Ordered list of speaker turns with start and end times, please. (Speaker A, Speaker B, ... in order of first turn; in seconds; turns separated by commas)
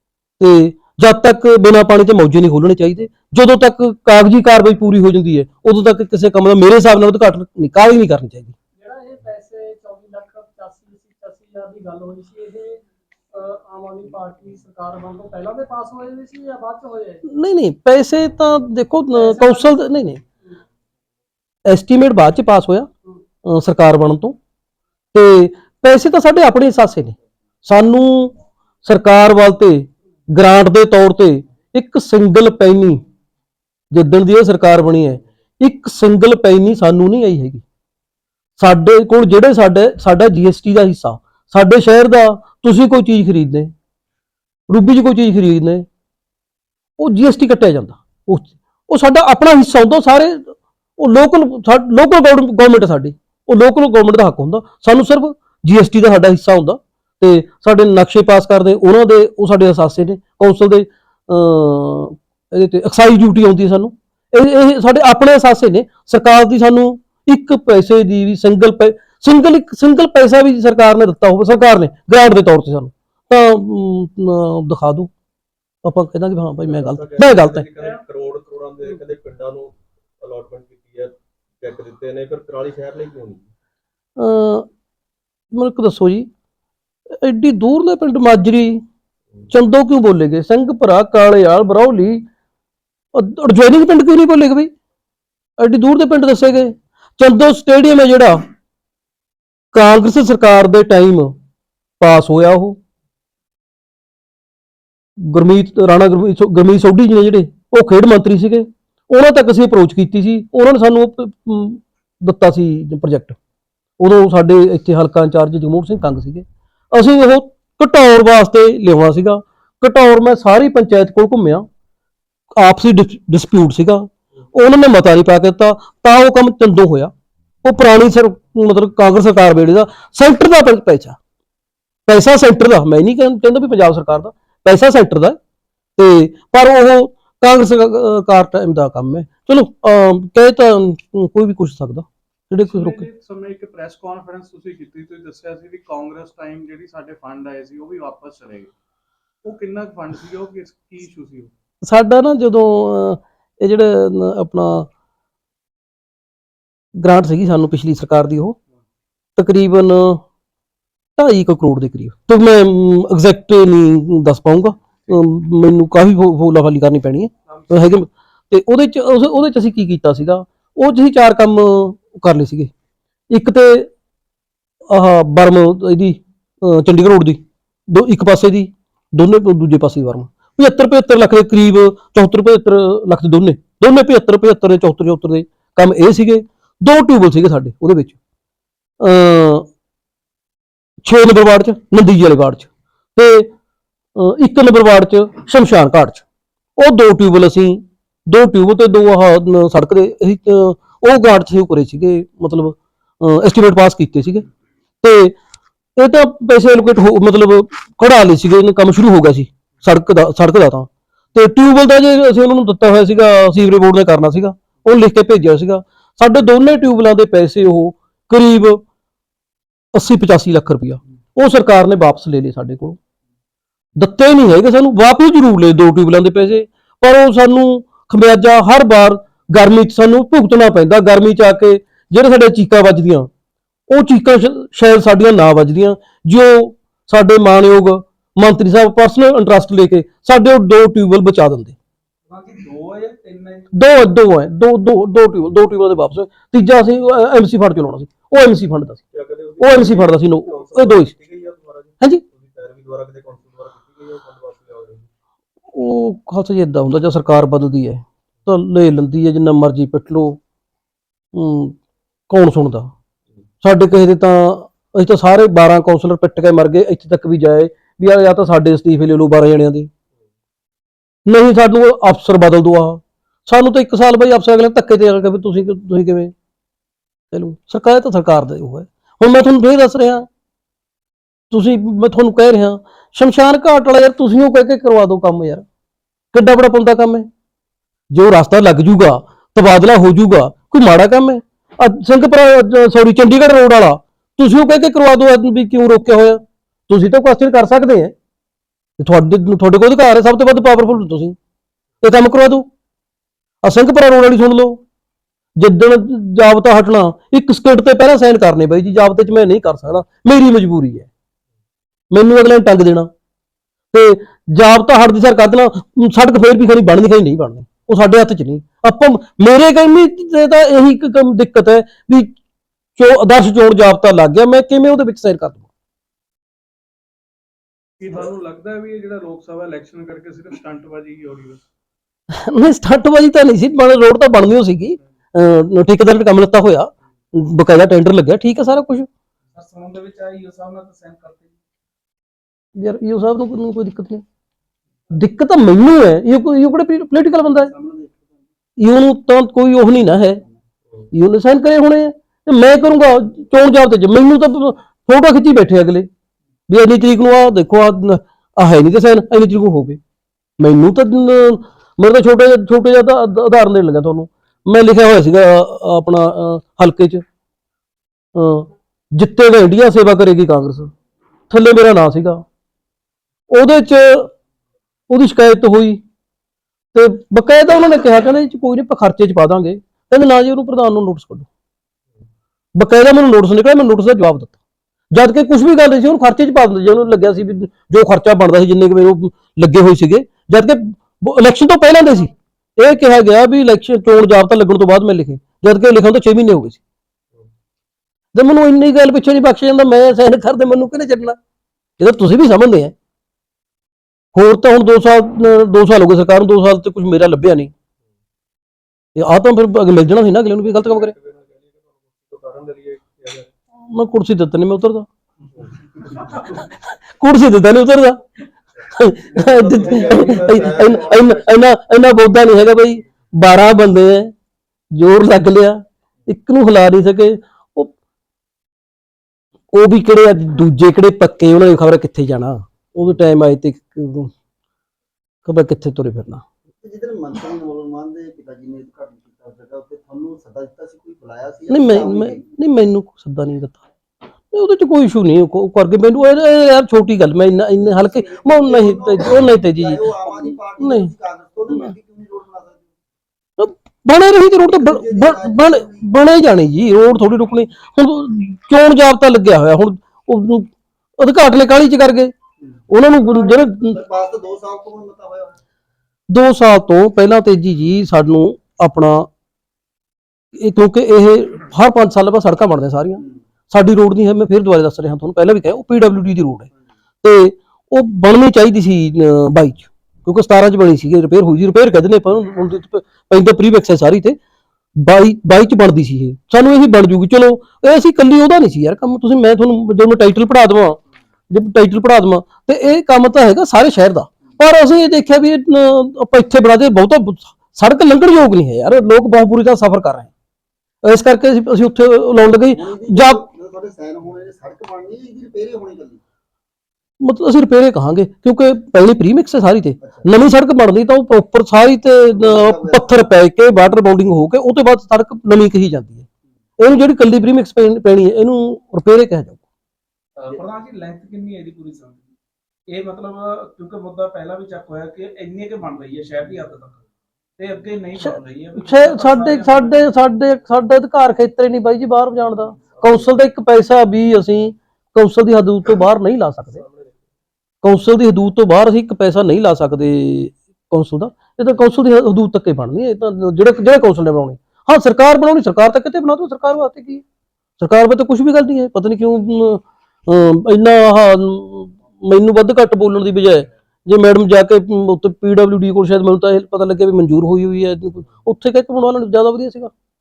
Speaker A: 0.4-8.5, Speaker B: 8.8-17.2, Speaker A: 17.2-20.2, Speaker B: 19.1-19.7, Speaker A: 21.6-22.9, Speaker A: 23.4-24.4, Speaker A: 25.1-33.0, Speaker A: 33.9-37.6, Speaker A: 38.6-43.7, Speaker A: 44.7-45.8, Speaker A: 47.0-75.1, Speaker A: 75.8-77.6, Speaker C: 76.6-83.4, Speaker A: 84.2-84.7, Speaker A: 85.5-86.3, Speaker A: 87.1-88.8, Speaker A: 89.5-92.2, Speaker A: 93.1-94.7, Speaker A: 95.6-98.5, Speaker A: 99.7-101.3, Speaker A: 102.0-102.8, Speaker A: 105.2-113.4, Speaker A: 114.0-121.7, Speaker A: 122.5-127.1, Speaker A: 127.6-131.2, Speaker A: 132.1-135.4, Speaker A: 136.0-143.0, Speaker D: 142.6-148.7, Speaker D: 149.4-151.5, Speaker A: 151.8-154.9, Speaker A: 157.0-158.6, Speaker A: 159.4-160.2, Speaker A: 161.2-172.7, Speaker A: 173.3-173.9, Speaker A: 174.9-188.2, Speaker A: 189.0-189.7, Speaker A: 191.0-193.5, Speaker A: 194.1-196.2, Speaker A: 196.8-204.4, Speaker A: 205.0-205.3, Speaker A: 206.0-218.8, Speaker A: 219.9-223.0, Speaker A: 224.0-233.3, Speaker A: 233.9-241.8, Speaker D: 242.3-243.7, Speaker A: 243.7-249.0, Speaker C: 249.1-255.1, Speaker A: 249.6-251.1, Speaker A: 255.7-260.4, Speaker A: 261.3-261.8, Speaker A: 262.3-262.9, Speaker A: 263.6-269.9, Speaker A: 271.2-276.3, Speaker A: 277.3-280.3, Speaker A: 281.5-285.6, Speaker A: 286.3-287.3, Speaker A: 288.1-298.1, Speaker A: 299.0-301.4, Speaker A: 302.0-302.7, Speaker A: 303.6-304.8, Speaker A: 305.6-311.1, Speaker A: 312.1-313.1, Speaker A: 313.9-322.3, Speaker A: 322.9-325.6, Speaker D: 328.0-331.6, Speaker A: 332.3-339.1, Speaker D: 339.5-341.6, Speaker A: 342.8-344.2, Speaker A: 345.1-347.7, Speaker A: 348.8-350.4, Speaker A: 351.1-356.1, Speaker A: 356.7-360.0, Speaker A: 360.6-367.2, Speaker A: 368.3-370.9, Speaker A: 371.5-372.4, Speaker A: 373.5-374.3, Speaker A: 375.1-376.0, Speaker A: 376.9-381.5, Speaker A: 382.8-384.6, Speaker A: 385.1-396.8, Speaker A: 398.3-401.4, Speaker A: 402.0-402.9, Speaker A: 404.3-407.7, Speaker A: 409.1-411.1, Speaker C: 410.4-413.5, Speaker A: 413.8-415.1, Speaker A: 417.2-418.2, Speaker A: 418.9-424.3, Speaker C: 419.3-421.4, Speaker A: 424.9-427.9, Speaker A: 429.7-434.3, Speaker A: 435.4-436.4, Speaker E: 436.8-442.4, Speaker A: 441.7-443.8, Speaker A: 444.5-451.1, Speaker E: 447.8-452.9, Speaker A: 453.6-462.3, Speaker E: 454.6-456.1, Speaker A: 462.9-464.0, Speaker E: 463.2-465.6, Speaker A: 466.3-469.3, Speaker A: 470.5-476.7, Speaker A: 477.2-484.4, Speaker A: 484.9-491.0, Speaker A: 491.5-500.3, Speaker A: 501.0-503.4, Speaker E: 502.7-506.2, Speaker A: 507.2-516.2, Speaker E: 510.0-510.3, Speaker E: 512.3-513.1, Speaker A: 516.8-519.6, Speaker D: 520.4-522.2, Speaker D: 522.9-527.0, Speaker D: 527.6-530.0, Speaker A: 528.2-536.8, Speaker C: 536.6-537.2, Speaker A: 537.8-547.2, Speaker A: 547.8-559.9